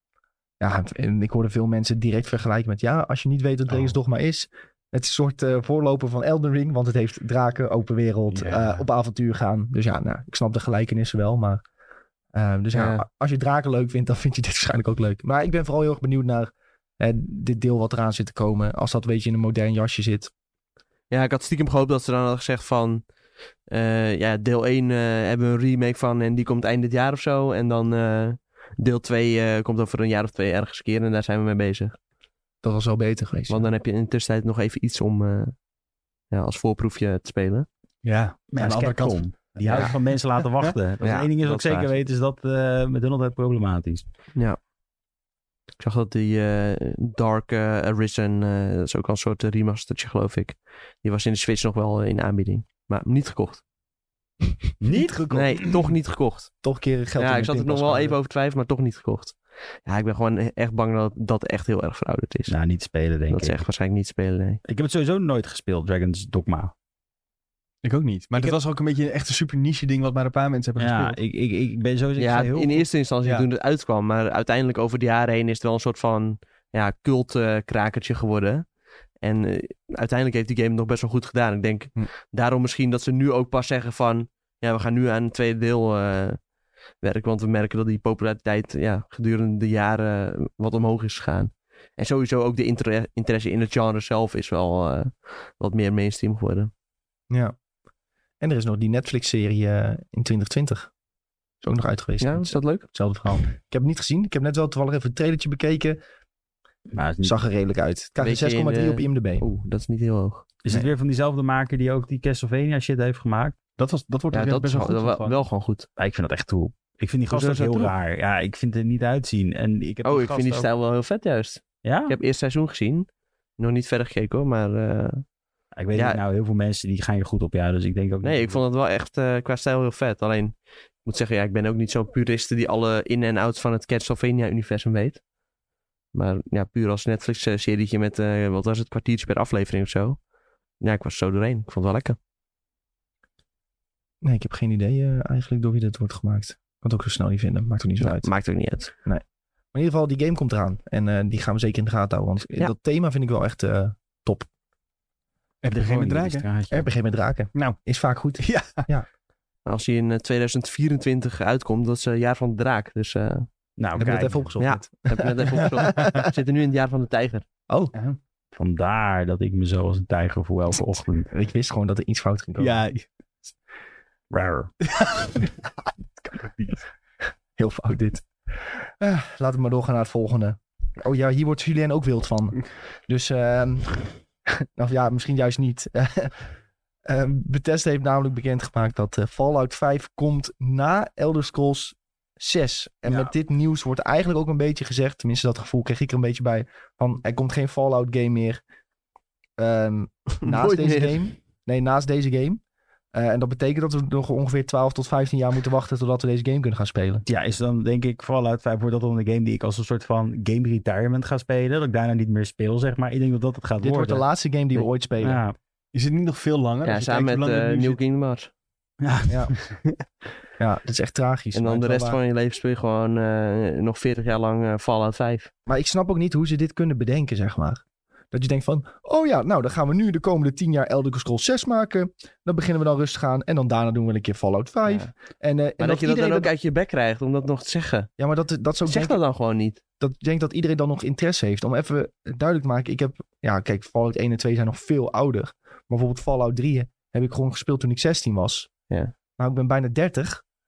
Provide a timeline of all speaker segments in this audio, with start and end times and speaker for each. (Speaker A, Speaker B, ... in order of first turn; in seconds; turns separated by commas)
Speaker A: 0.6-11.6, Speaker B: 3.7-4.0, Speaker B: 8.3-8.8, Speaker A: 12.3-20.3, Speaker C: 12.7-13.0, Speaker C: 21.1-23.1, Speaker C: 23.7-32.0, Speaker A: 32.6-33.7, Speaker C: 33.5-35.6, Speaker C: 36.3-37.7, Speaker B: 38.0-40.8, Speaker D: 38.5-44.0, Speaker C: 41.0-41.9, Speaker C: 45.8-53.6, Speaker D: 54.8-55.2, Speaker A: 54.9-55.7, Speaker C: 55.3-56.5, Speaker A: 56.6-58.2, Speaker C: 57.2-62.6, Speaker D: 62.5-63.6, Speaker C: 63.3-64.6, Speaker D: 64.7-66.7, Speaker B: 67.8-71.2, Speaker D: 70.8-72.9, Speaker C: 72.2-86.5, Speaker C: 87.0-96.7, Speaker A: 97.3-97.6, Speaker A: 98.4-100.9, Speaker A: 101.6-106.0, Speaker C: 102.2-102.9, Speaker D: 106.9-107.4, Speaker A: 107.2-109.5, Speaker C: 108.2-110.5, Speaker D: 110.6-113.6, Speaker B: 113.8-115.4, Speaker C: 114.3-115.9, Speaker D: 116.0-120.7, Speaker C: 117.3-117.9, Speaker C: 120.0-125.3, Speaker D: 121.8-122.2, Speaker D: 125.7-128.6, Speaker C: 125.9-126.2, Speaker C: 128.2-135.2, Speaker C: 136.1-140.2, Speaker C: 140.8-142.2, Speaker A: 144.2-148.3, Speaker C: 148.0-148.9, Speaker A: 149.0-154.5, Speaker B: 155.6-156.5, Speaker D: 155.7-156.9, Speaker A: 156.7-159.1, Speaker B: 157.5-157.8, Speaker B: 158.4-158.9, Speaker C: 159.7-163.5, Speaker D: 163.8-164.5, Speaker A: 164.0-165.6, Speaker C: 164.6-167.4, Speaker B: 165.9-166.1, Speaker D: 168.5-171.3, Speaker A: 171.3-172.8, Speaker B: 172.6-173.1, Speaker D: 174.3-174.7, Speaker B: 174.9-175.7, Speaker B: 176.2-176.8, Speaker A: 177.6-186.4, Speaker A: 187.1-198.6, Speaker A: 199.6-202.6, Speaker C: 200.4-201.2, Speaker A: 203.1-207.2, Speaker D: 207.2-214.2, Speaker A: 213.8-215.4, Speaker D: 215.2-215.6, Speaker B: 215.9-218.0, Speaker C: 216.8-218.5, Speaker D: 219.0-219.6, Speaker A: 219.3-219.5, Speaker A: 220.6-222.2, Speaker C: 221.5-225.5, Speaker A: 225.7-236.5, Speaker C: 234.9-235.1, Speaker C: 235.8-238.1, Speaker A: 238.2-239.2, Speaker C: 238.9-239.8, Speaker A: 240.0-248.7, Speaker A: 249.4-250.4